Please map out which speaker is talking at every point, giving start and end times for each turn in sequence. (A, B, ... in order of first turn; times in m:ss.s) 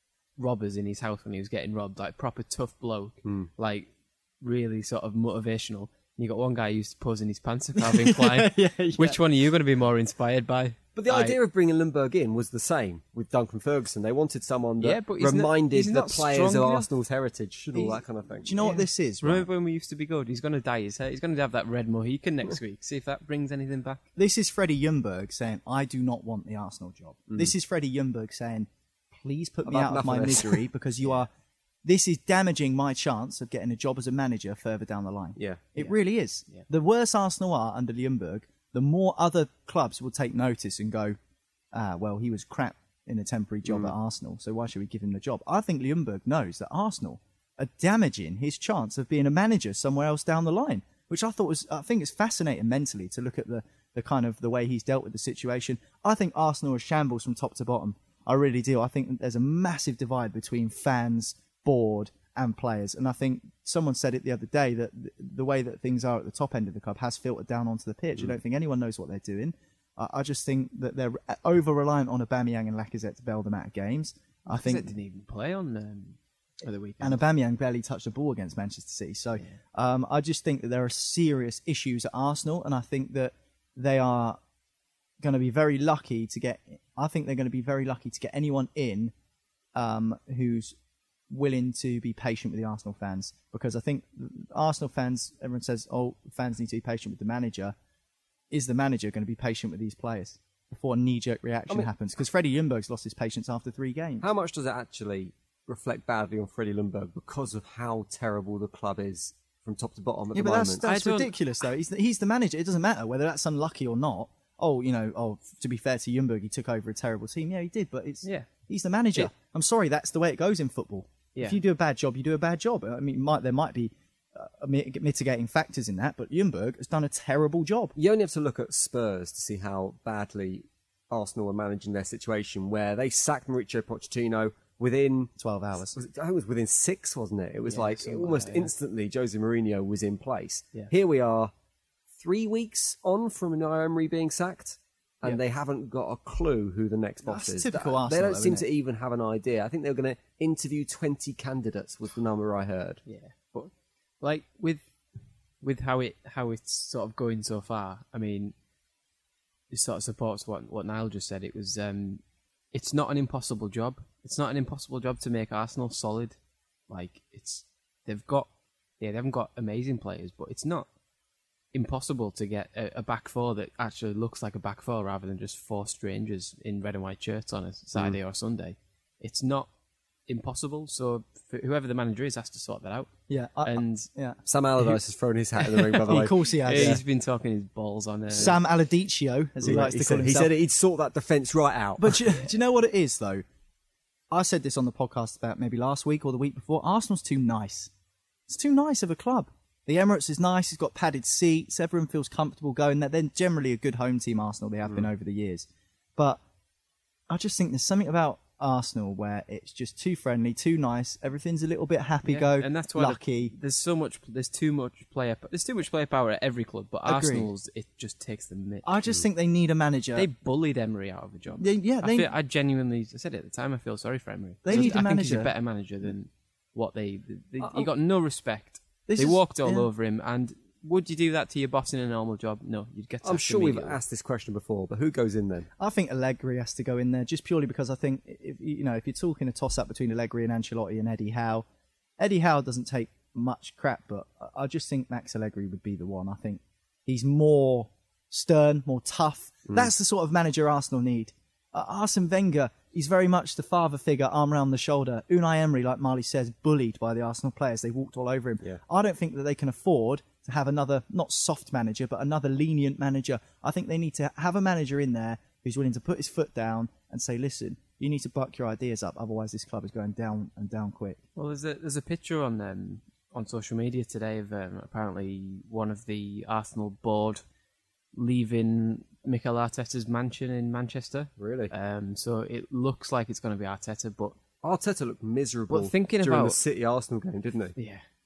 0:00.4-0:03.9 A
0:03.2-0:03.5 B
0:04.4-0:11.4 A
0:07.8-0:09.2 C
0:11.0-0:18.6 B
0:14.8-0:16.9 A
0:17.7-0:19.5 C
0:18.6-0:24.0 A
0:24.2-0:31.3 C
0:29.7-0:30.6 B
0:31.8-0:41.2 C
0:35.4-0:35.6 B
0:41.7-1:14.9 C
0:43.6-0:43.9 B
1:14.5-1:17.2 A
1:17.0-1:24.4 C
1:25.2-1:29.1 C
1:29.8-1:30.8 C
1:31.3-1:37.8 C
1:38.5-1:44.3 C
1:44.2-1:50.8 B
1:50.3-2:07.9 C
1:50.8-1:51.3 A
2:08.0-2:15.3 B
2:15.4-2:16.0 C
2:15.9-2:21.5 B
2:17.6-2:18.7 A
2:22.1-2:33.0 B
2:27.2-2:28.7 C
2:33.1-2:34.9 A
2:35.6-2:38.6 A
2:39.7-2:42.2 A
2:42.7-2:46.4 A
2:46.9-2:50.9 A
2:51.7-2:59.7 A
3:00.3-3:03.1 A
3:03.3-3:04.9 C
3:03.6-3:04.1 A
3:04.5-3:07.0 B
3:06.0-3:08.5 A
3:06.1-3:07.0 C
3:08.3-3:10.5 C
3:09.6-3:12.2 B
3:12.0-3:13.4 C
3:14.3-3:17.9 C
3:18.5-3:26.4 C
3:27.3-3:33.5 C
3:32.2-3:39.0 A
3:37.1-3:37.5 C
3:38.8-3:40.3 C
3:40.2-3:54.0 A
3:41.6-3:42.3 C
3:44.6-3:45.5 C
3:49.1-3:49.9 C
3:53.2-3:55.7 B
3:55.8-4:01.7 C
4:02.2-4:31.2 C
4:31.4-4:37.4 A
4:38.1-4:44.4 A
4:41.4-4:41.7 B
4:44.6-4:47.8 B
4:45.7-4:46.6 A
4:47.8-4:48.0 A